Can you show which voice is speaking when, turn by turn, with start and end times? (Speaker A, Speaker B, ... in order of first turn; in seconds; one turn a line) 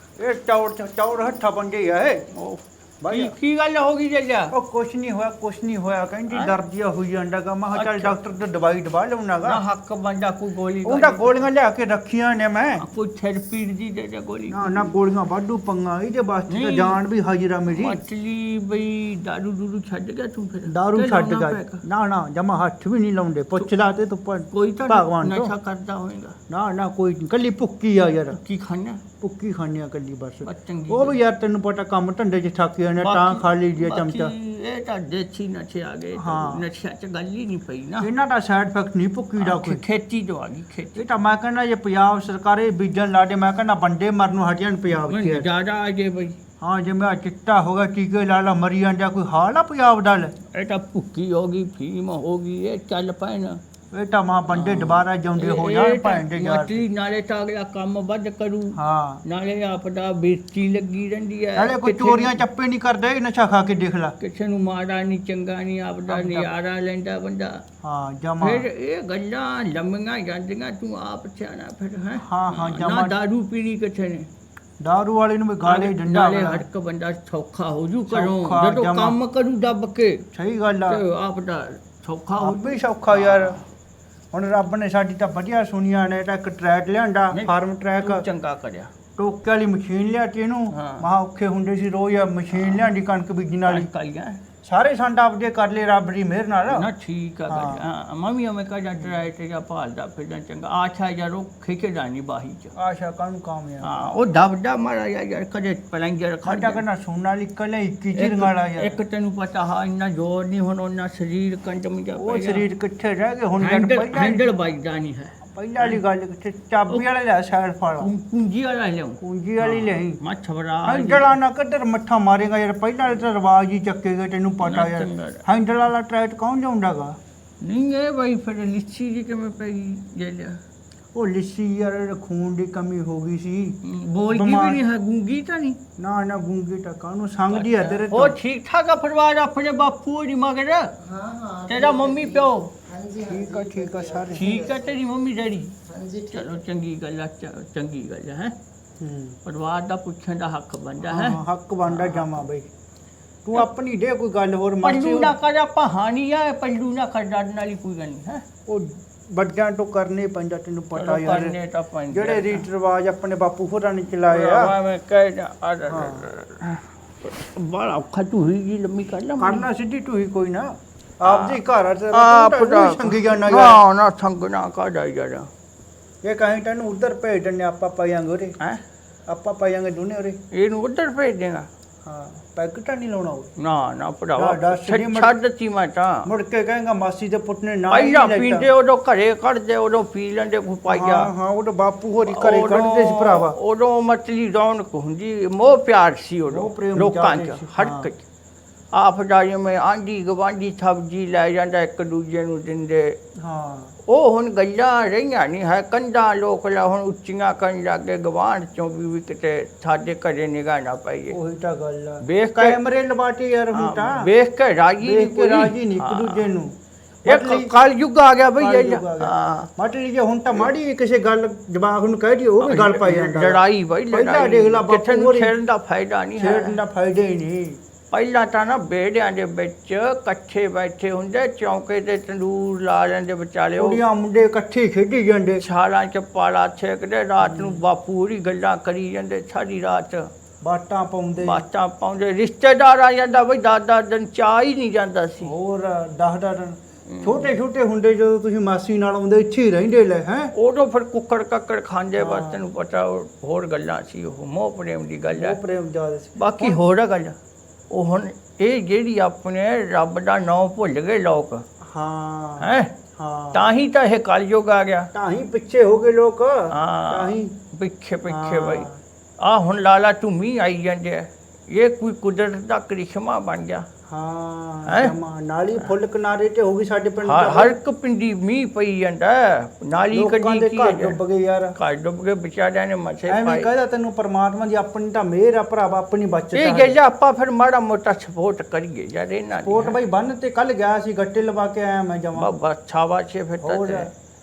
Speaker A: 0.2-2.2
Speaker B: 2.3-4.5
Speaker A: 3.0-3.4
Speaker A: 4.5-9.6
Speaker B: 7.7-8.2
Speaker B: 9.4-11.4
Speaker A: 10.8-12.9
Speaker B: 12.8-14.9
Speaker A: 14.5-18.0
Speaker B: 16.5-17.0
Speaker B: 17.7-21.8
Speaker A: 20.7-25.5
Speaker B: 24.5-26.4
Speaker A: 26.5-28.4
Speaker B: 28.3-29.0
Speaker A: 29.2-34.3
Speaker B: 30.4-31.2
Speaker B: 33.0-38.1
Speaker A: 36.1-36.6
Speaker A: 38.0-39.8
Speaker B: 39.4-41.0
Speaker A: 41.0-45.5
Speaker B: 44.9-46.4
Speaker A: 46.6-50.3
Speaker B: 50.5-53.6
Speaker A: 53.9-56.8
Speaker B: 54.5-62.4
Speaker A: 58.7-59.2
Speaker A: 61.5-64.2
Speaker B: 64.2-67.6
Speaker A: 66.1-66.5
Speaker A: 67.8-68.7
Speaker B: 68.4-74.3
Speaker A: 72.2-73.2
Speaker A: 74.8-76.7
Speaker B: 75.6-80.2
Speaker A: 78.1-79.2
Speaker A: 80.3-81.0
Speaker B: 80.9-83.6
Speaker A: 82.4-83.6
Speaker A: 84.3-88.2
Speaker B: 87.3-88.9
Speaker A: 89.2-93.9
Speaker B: 90.7-91.0
Speaker B: 92.5-92.9
Speaker B: 93.7-94.4
Speaker A: 94.6-96.9
Speaker B: 96.7-102.7
Speaker A: 97.5-97.8
Speaker A: 102.8-104.2
Speaker B: 103.8-106.8
Speaker A: 106.4-109.0
Speaker B: 108.1-112.7
Speaker A: 112.2-114.5
Speaker B: 113.6-116.0
Speaker A: 115.5-118.1
Speaker B: 118.0-121.3
Speaker A: 119.2-120.2
Speaker A: 120.8-127.2
Speaker B: 124.6-125.4
Speaker B: 127.6-130.6
Speaker A: 131.1-133.8
Speaker B: 133.8-135.8
Speaker A: 134.3-134.8
Speaker A: 136.0-138.4
Speaker B: 137.5-140.9
Speaker C: 141.0-145.0
Speaker B: 141.7-142.7
Speaker A: 143.2-144.5
Speaker B: 144.3-145.8
Speaker C: 145.8-146.5
Speaker B: 146.3-148.5
Speaker A: 149.0-149.4
Speaker B: 149.4-152.4
Speaker A: 151.1-152.7
Speaker A: 153.4-155.3
Speaker B: 154.8-158.4
Speaker A: 158.7-161.6
Speaker B: 160.9-162.6
Speaker A: 162.1-164.7
Speaker B: 164.3-169.7
Speaker A: 165.9-166.3
Speaker A: 169.4-170.7
Speaker A: 171.2-173.8
Speaker B: 171.2-175.5
Speaker A: 176.2-178.5
Speaker A: 179.3-180.4
Speaker B: 180.5-181.7
Speaker A: 182.0-183.5
Speaker B: 183.6-186.3
Speaker A: 184.3-185.4
Speaker A: 186.2-188.7
Speaker B: 187.9-191.3
Speaker A: 190.9-193.6
Speaker B: 192.2-198.2
Speaker A: 196.5-198.1
Speaker B: 198.9-203.2
Speaker A: 203.4-203.9
Speaker B: 204.0-211.4
Speaker A: 211.3-214.3
Speaker B: 212.2-212.8
Speaker B: 213.7-216.5
Speaker A: 215.0-217.7
Speaker B: 217.2-219.7
Speaker A: 218.6-225.6
Speaker B: 222.6-226.8
Speaker A: 226.4-227.8
Speaker B: 228.1-234.0
Speaker A: 233.8-235.6
Speaker B: 235.6-240.3
Speaker A: 237.4-237.8
Speaker A: 240.6-241.7
Speaker B: 241.4-245.5
Speaker A: 245.4-250.5
Speaker B: 247.1-247.5
Speaker B: 250.5-255.6
Speaker A: 252.2-252.6
Speaker A: 255.3-256.8
Speaker B: 256.4-257.4
Speaker B: 257.9-261.6
Speaker A: 261.8-263.7
Speaker B: 262.6-262.9
Speaker B: 263.5-265.1
Speaker A: 265.1-267.5
Speaker B: 266.7-268.9
Speaker A: 268.3-269.0
Speaker B: 269.4-273.8
Speaker A: 274.1-277.8
Speaker B: 274.9-275.1
Speaker B: 277.2-281.2
Speaker A: 280.1-281.8
Speaker B: 281.8-283.7
Speaker A: 283.3-287.0
Speaker B: 286.5-290.0
Speaker A: 289.6-292.5
Speaker B: 292.4-294.1
Speaker A: 293.6-294.1